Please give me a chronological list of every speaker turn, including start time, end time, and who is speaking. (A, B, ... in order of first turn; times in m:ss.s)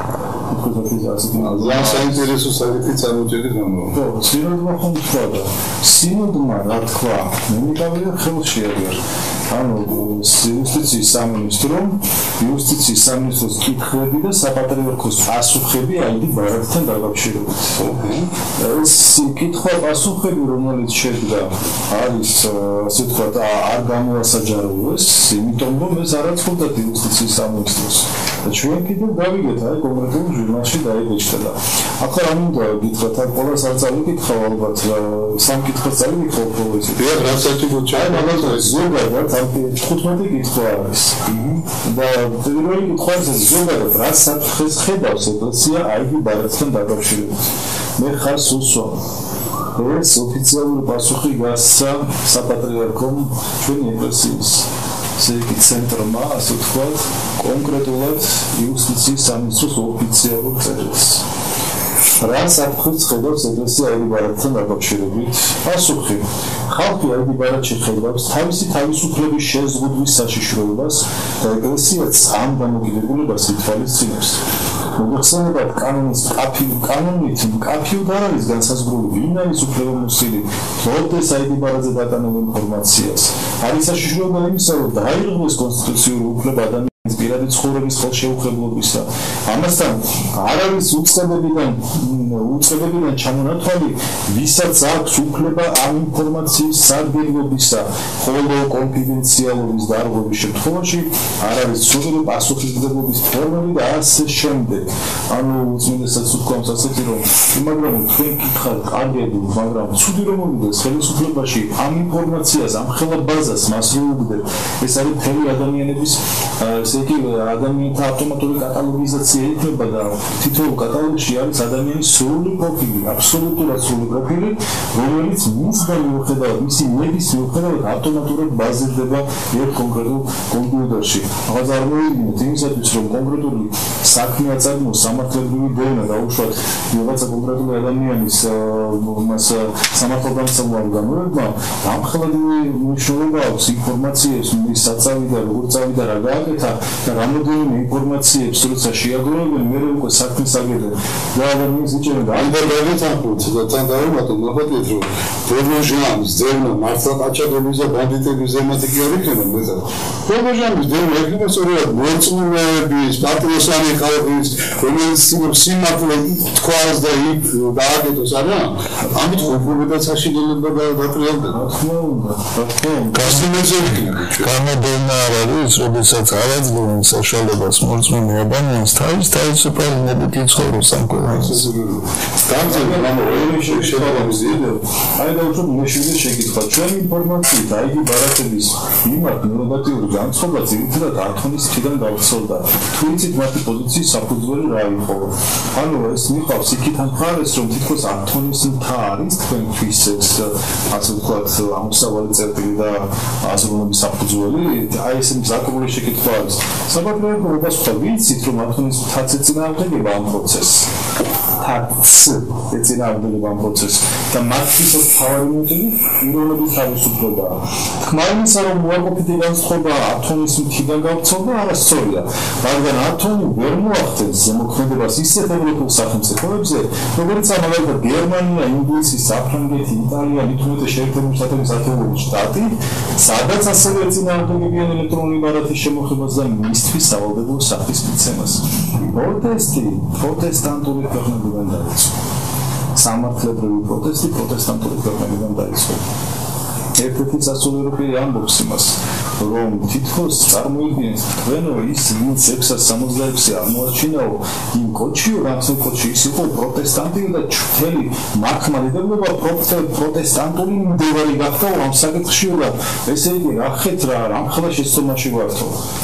0:00.5-0:02.3 A
0:01.4-0:04.0 B
0:03.9-0:17.7 A
0:17.8-0:18.3 B
0:18.6-0:41.2 A
0:37.0-0:38.9 B
0:41.2-0:41.6 B
0:41.8-0:49.0 A
0:49.7-1:01.2 A
1:02.2-1:14.4 A
1:15.0-2:32.7 A
2:32.3-2:51.6 B
2:51.5-2:53.5 A
2:53.1-2:54.5 B
2:53.1-3:01.7 C
3:01.1-3:04.6 B
3:02.6-3:30.9 A
3:31.6-4:02.1 A
4:02.9-4:06.0 A
4:06.9-4:25.8 A